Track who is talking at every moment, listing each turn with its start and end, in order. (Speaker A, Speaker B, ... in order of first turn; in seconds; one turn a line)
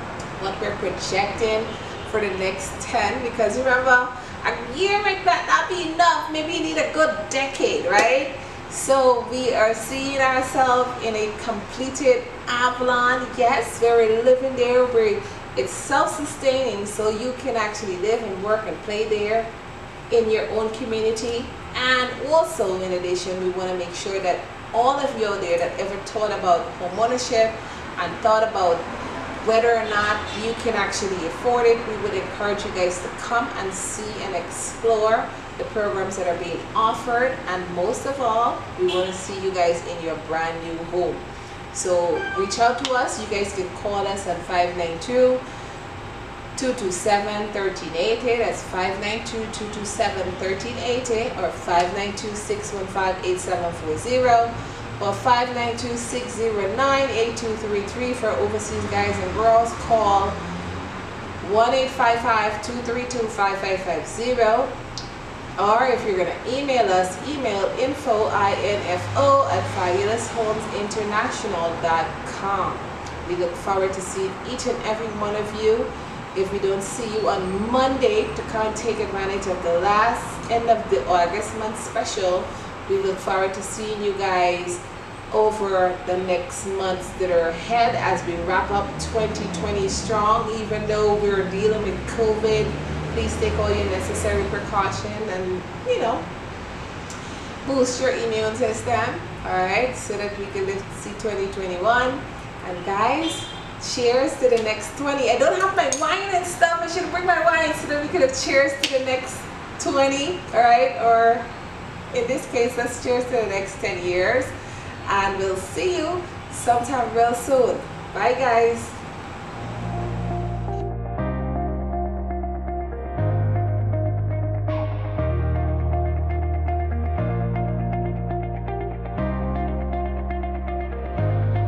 Speaker A: 0.4-19.5
Speaker A: 20.1-28.8
Speaker A: 29.4-45.4
Speaker A: 46.6-60.4
Speaker A: 61.4-64.7
Speaker A: 65.6-96.3
Speaker A: 97.7-111.5
Speaker A: 112.1-114.5
Speaker A: 115.0-119.0